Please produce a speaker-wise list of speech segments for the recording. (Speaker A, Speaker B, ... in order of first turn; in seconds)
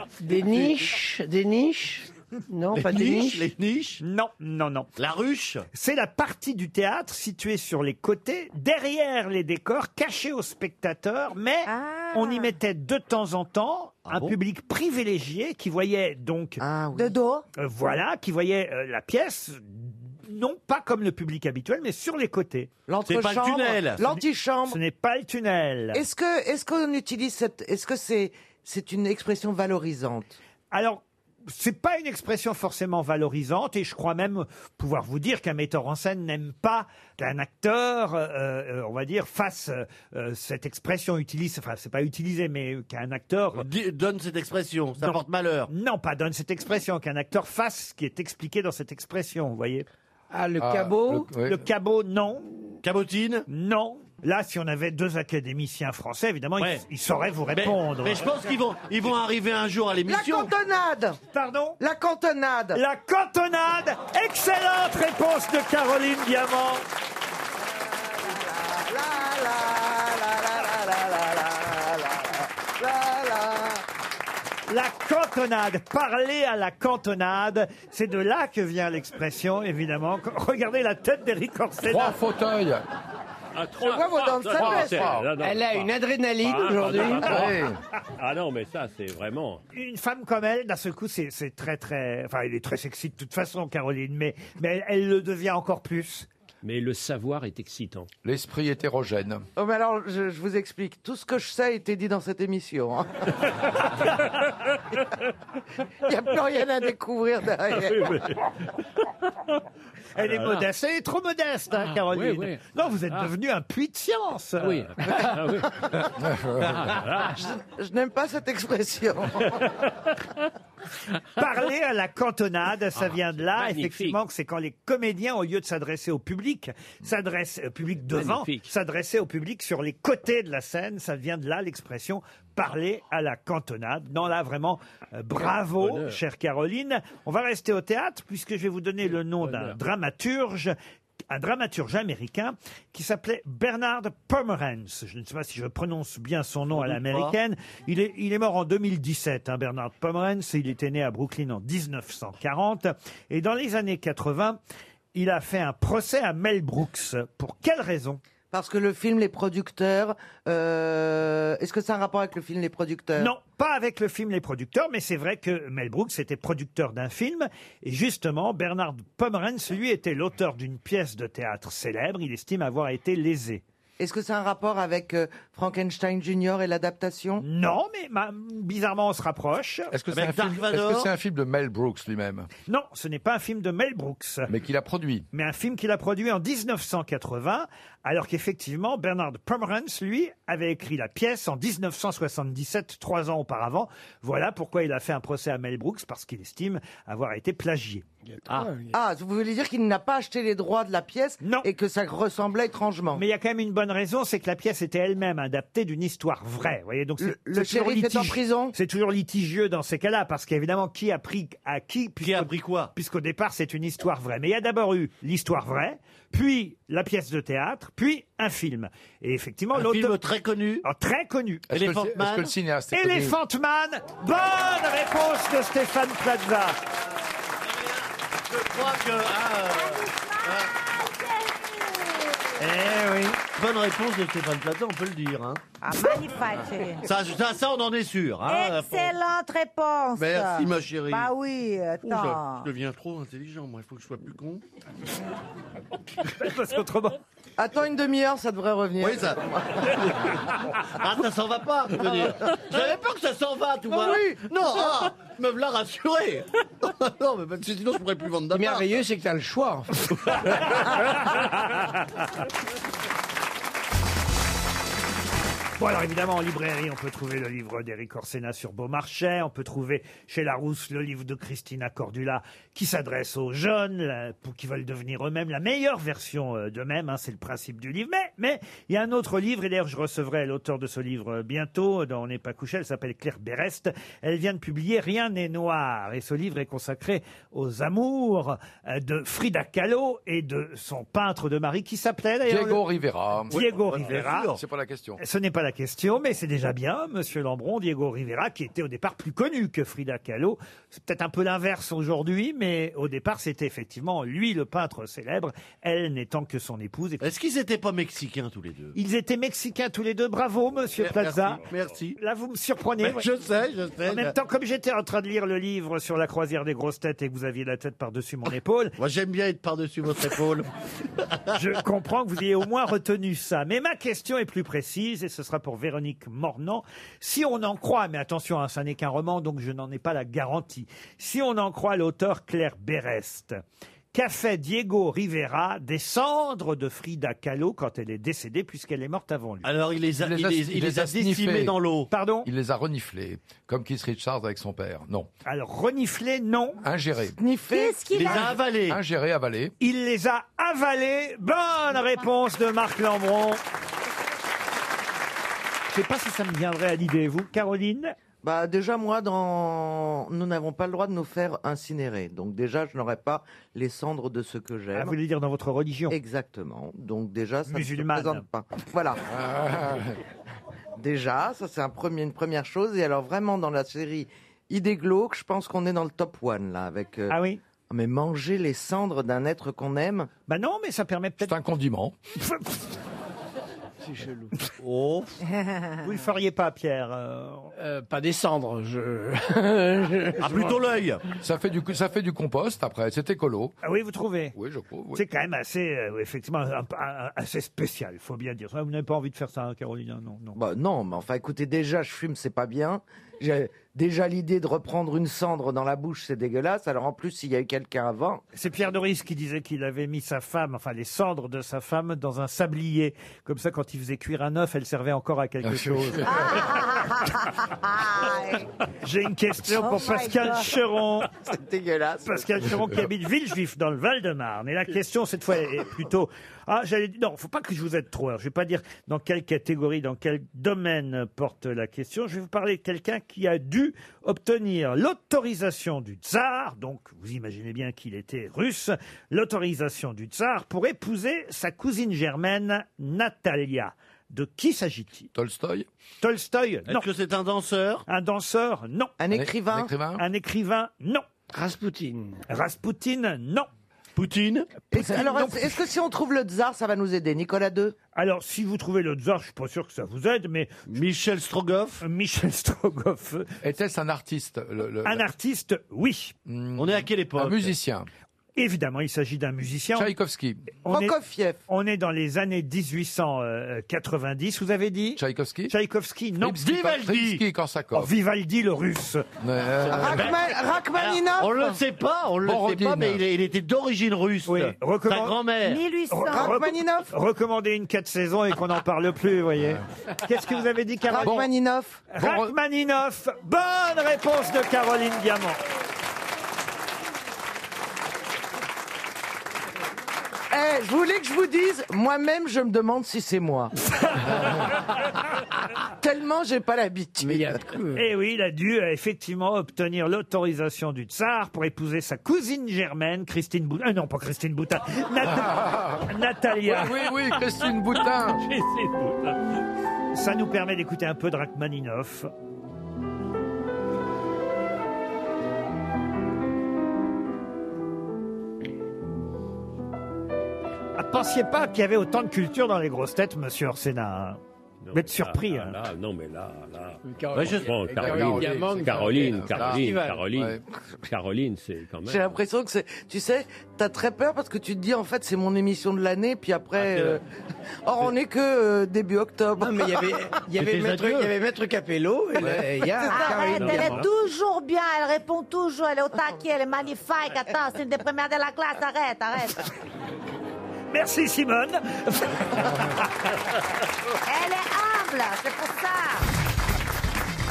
Speaker A: 0.2-3.5, 50.3-51.3, 85.4-87.4, 198.2-198.9, 258.5-260.4, 384.0-384.5, 387.8-390.8, 451.5-452.4, 507.2-508.1, 537.0-540.2, 549.6-554.0
Speaker B: 0.5-0.7, 2.7-4.0, 5.0-5.7, 14.1-14.3, 23.0-24.1, 43.5-45.7, 52.8-53.4, 57.5-60.5, 146.7-147.3, 180.1-181.1, 212.2-212.9, 219.7-220.8, 221.7-222.5, 227.7-230.7, 233.6-235.6, 237.0-239.2, 240.1-241.3, 242.0-244.6, 249.0-250.3, 250.9-259.0, 293.5-294.6, 307.2-308.9, 311.0-312.2, 313.0-314.3, 319.0-321.6, 339.6-342.1, 348.1-349.0, 384.8-385.4, 390.4-391.2, 446.9-448.0, 454.1-454.7, 460.9-462.0, 466.8-467.7, 476.5-477.4, 479.9-485.8, 537.3-537.7, 546.8-547.2, 550.5-551.3, 553.5-554.0
Speaker C: 4.0-4.9, 5.7-16.6, 17.6-22.7, 24.7-26.0, 30.7-43.7, 45.0-49.9, 51.4-52.5, 53.5-58.5, 61.3-61.8, 62.7-66.8, 74.7-82.2, 89.7-96.3, 110.2-114.9, 121.3-140.7, 141.3-154.6, 155.1-158.2, 163.2-173.6, 177.4-179.9, 182.7-184.5, 185.3-198.0, 201.4-201.7, 203.1-220.2, 220.8-221.7, 222.9-226.8, 232.7-233.3, 246.3-247.2, 265.8-292.8, 293.5-294.5, 295.2-307.2, 308.9-311.6, 312.2-313.3, 314.1-318.9, 321.5-333.6, 334.1-339.7, 342.1-342.5, 345.4-346.8, 349.8-353.6, 355.9-358.1, 364.9-366.1, 367.7-368.4, 377.3-377.6, 380.5-381.5, 382.4-382.8, 386.0-387.7, 393.8-394.5, 395.1-400.6, 408.5-416.6, 419.0-421.3, 422.2-445.3, 446.2-447.0, 448.1-449.1, 450.1-451.2, 452.5-453.7, 454.9-455.8, 458.1-460.9, 462.0-463.6, 465.0-466.3, 468.6-470.1, 470.8-471.1, 471.7-476.6, 477.9-479.3, 484.5-485.4, 486.1-491.4, 492.1-495.6, 507.9-517.1, 520.1-522.3, 531.0-534.4, 534.9-535.8, 560.9-562.9
Speaker D: 11.7-12.5, 16.9-17.4, 229.7-232.5, 235.8-237.1, 238.4-242.7, 347.7-348.6, 416.2-418.6, 419.7-420.7, 485.6-486.6, 553.0-559.7, 564.2-566.2
Speaker E: 16.6-17.2, 22.9-24.8, 25.9-30.4, 60.0-61.2, 61.8-62.8, 67.8-73.8, 83.8-85.1, 99.5-103.8, 106.0-108.3, 117.3-119.7, 158.5-163.3, 174.0-177.4, 198.9-203.2, 207.2-208.7, 247.6-250.3, 253.9-254.5, 347.3-348.2, 358.4-365.1, 366.1-369.2, 371.0-377.4, 377.9-380.3, 400.5-408.4, 421.4-422.7, 449.2-449.9, 454.9-457.9, 470.9-471.6, 479.9-481.7, 486.3-487.1, 491.1-492.0, 500.5-503.7, 506.0-507.6, 542.0-547.2, 547.8-550.1, 553.0-553.8
Speaker F: 50.6-51.6, 81.8-82.8, 84.5-85.3, 87.2-87.8, 98.2-99.5, 116.2-117.0, 179.9-182.5, 184.5-185.3, 221.7-223.4, 292.4-293.6, 294.5-295.2, 340.2-341.8, 342.4-345.3, 346.8-347.4, 348.9-349.7, 369.3-370.2, 381.4-382.1, 391.4-393.7, 394.5-395.2, 415.6-416.6, 445.3-445.9, 449.3-450.2, 463.6-465.2, 466.4-468.1, 469.9-470.7, 475.2-475.7, 476.4-478.1, 479.4-480.3, 482.4-483.2, 491.2-491.5, 492.2-492.5, 515.2-516.1, 516.6-518.4, 537.8-540.6
Speaker G: 83.5-87.6, 88.2-89.6, 96.6-98.1, 107.9-108.3, 110.3-110.6, 112.1-112.6, 114.6-115.8, 116.6-117.4, 123.0-124.2, 128.1-128.7, 135.8-136.2, 139.4-139.7, 518.4-519.5, 534.8-542.4